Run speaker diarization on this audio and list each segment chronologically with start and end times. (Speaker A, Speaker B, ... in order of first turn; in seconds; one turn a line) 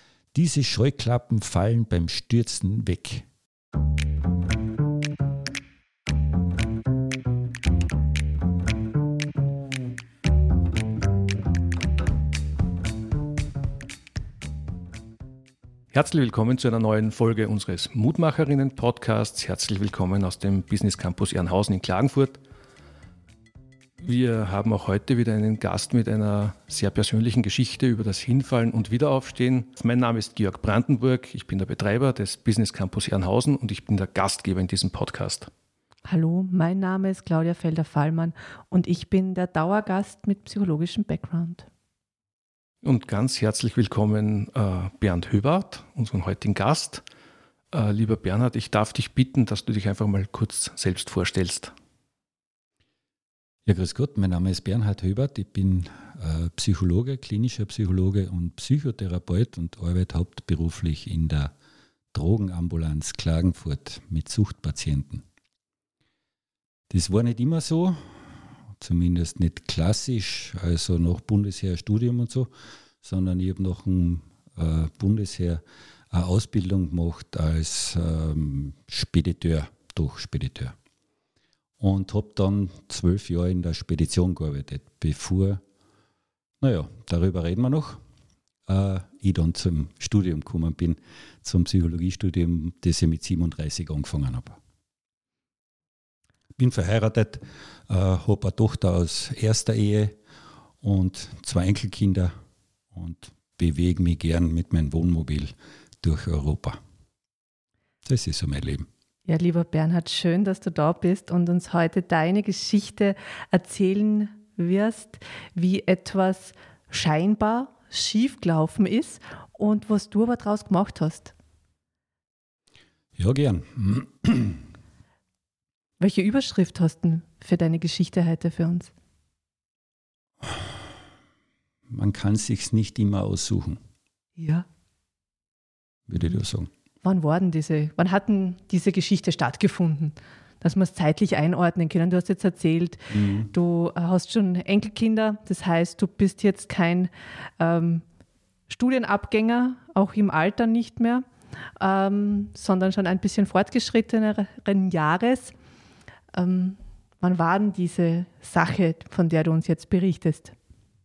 Speaker A: 0.3-3.3
Speaker B: 15.9-22.4
Speaker B: 24.0-35.5
Speaker C: 36.0-41.7
Speaker B: 42.8-47.0
Speaker B: 47.7-51.7
Speaker A: 53.7-61.5
Speaker A: 62.1-65.2
Speaker A: 66.9-68.1
Speaker A: 68.8-72.5
Speaker A: 73.0-80.8
Speaker A: 81.8-85.6
Speaker A: 86.6-88.0
Speaker A: 88.7-94.6
Speaker A: 96.6-100.2
Speaker A: 100.8-102.3
Speaker A: 102.9-106.8
Speaker A: 108.0-108.9
Speaker C: 109.3-121.3
Speaker A: 123.2-124.6
Speaker C: 126.0-128.9
Speaker A: 130.4-130.8
Speaker A: 131.9-133.8
Speaker C: 134.4-134.7
Speaker A: 136.1-136.7
Speaker C: 137.0-148.0
Speaker A: 143.1-143.5
Speaker C: 148.7-155.5
Speaker C: 156.3-160.6